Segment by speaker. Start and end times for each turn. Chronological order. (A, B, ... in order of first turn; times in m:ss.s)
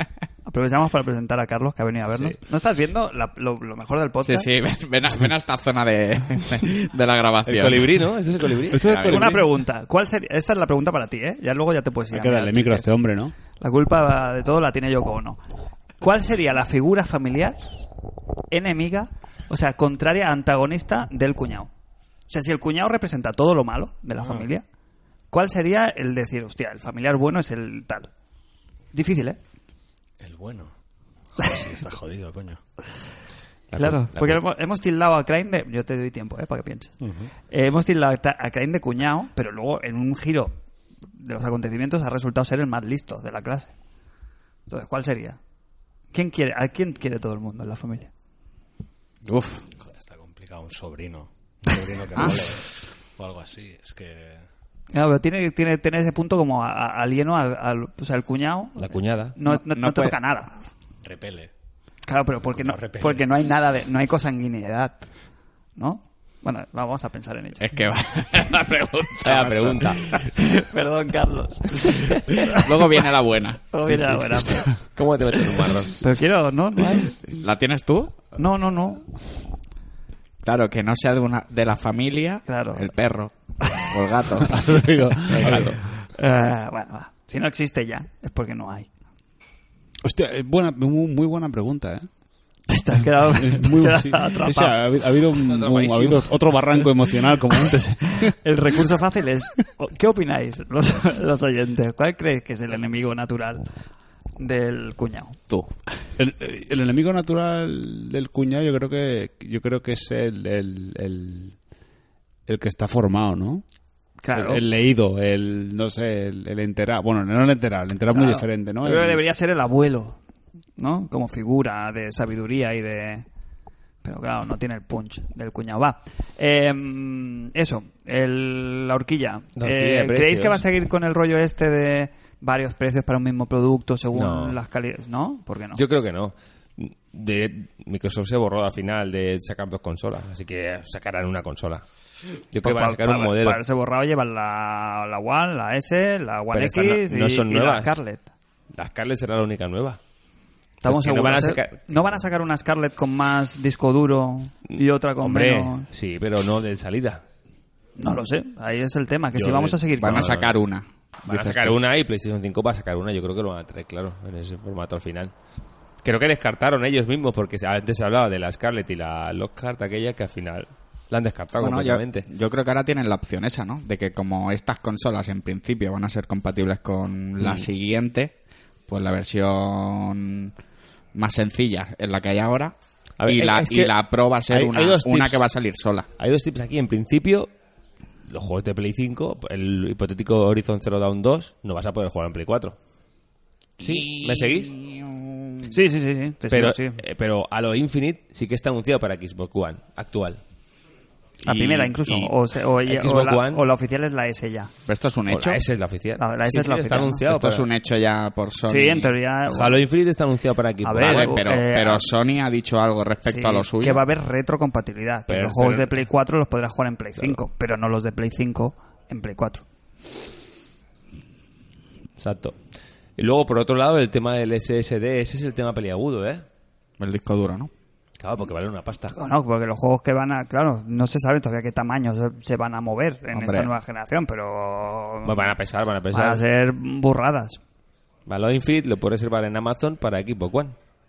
0:00.4-0:04.5 A
0:04.2-0:08.0 B
0:07.5-0:09.0 C
0:08.7-0:09.4 B
0:08.7-0:09.5 D
0:09.0-0:12.9 A
0:12.1-0:13.3 D
0:13.6-0:15.4 A
0:16.0-0:17.6 A
0:18.5-0:21.7 A
0:22.3-0:24.6 A
0:25.3-0:28.1 A
0:28.9-0:29.4 A
0:30.2-0:30.7 E
0:31.4-0:32.6 E
0:33.7-0:34.4 C
0:33.8-0:36.9 A
0:37.0-0:37.3 E
0:37.5-0:40.6 A
0:41.1-0:43.7 A
0:44.7-0:45.4 A
0:46.1-0:48.1 A
0:49.2-0:49.6 B
0:49.8-0:54.4 E
0:54.9-1:00.6 A
0:58.8-0:59.3 C
0:59.4-1:00.2 B
1:01.0-1:01.5 E
1:02.0-1:05.1 A
1:02.5-1:03.2 E
1:05.8-1:07.6 A
1:07.6-1:10.3 B
1:09.1-1:10.1 C
1:10.4-1:12.8 A
1:12.4-1:14.6 B
1:13.7-1:14.8 A
1:14.9-1:16.0 C
1:15.9-1:17.2 A
1:17.3-1:18.2 B
1:18.4-1:19.1 A
1:20.4-1:25.8 B
1:22.5-1:22.9 A
1:24.4-1:25.8 D
1:25.4-1:25.7 C
1:25.5-1:28.9 A
1:30.0-1:32.1 D
1:32.7-1:34.8 A
1:33.2-1:38.4 D
1:35.4-1:36.3 C
1:38.2-1:43.7 A
1:44.4-1:45.4 A
1:45.5-1:45.8 B
1:46.2-1:51.5 D
1:52.5-1:53.6 D
1:54.2-1:54.6 A
1:54.3-1:59.2 D
1:58.1-2:00.2 A
2:00.8-2:03.2 A
2:04.0-2:15.8 A
2:09.6-2:10.6 C
2:14.1-2:14.6 C
2:15.8-2:21.8 C
2:22.5-2:23.6 C
2:22.6-2:28.3 A
2:26.5-2:27.9 C
2:28.7-2:30.0 C
2:30.8-2:35.9 A
2:30.8-2:32.2 C
2:34.7-2:37.2 C
2:38.0-2:40.4 A
2:39.4-2:40.5 C
2:40.0-2:41.8 B
2:41.2-2:45.3 C
2:46.0-2:52.2 C
2:51.6-2:58.3 B
2:58.9-3:00.5 B
3:01.1-3:06.1 B
3:03.2-3:03.9 C
3:04.5-3:05.4 C
3:06.2-3:07.5 C
3:08.3-3:12.8 C
3:13.8-3:14.7 C
3:13.8-3:15.7 B
3:15.6-3:17.0 A
3:16.5-3:20.4 C
3:21.4-3:24.7 A
3:21.5-3:22.3 C
3:22.9-3:23.6 C
3:24.9-3:25.6 B
3:25.3-3:27.7 C
3:26.2-3:27.2 A
3:27.2-3:29.2 B
3:28.7-3:29.8 A
3:29.5-3:31.5 C
3:30.8-3:32.1 A
3:31.0-3:34.0 B
3:33.2-3:39.6 A
3:35.3-3:36.0 C
3:42.2-3:42.6 C
3:43.2-3:46.4 C
3:47.0-3:47.7 B
3:48.2-3:49.2 C
3:49.1-3:55.5 A
3:53.3-3:53.7 B
3:55.2-3:56.4 C
3:56.1-3:57.6 A
3:58.2-4:00.8 C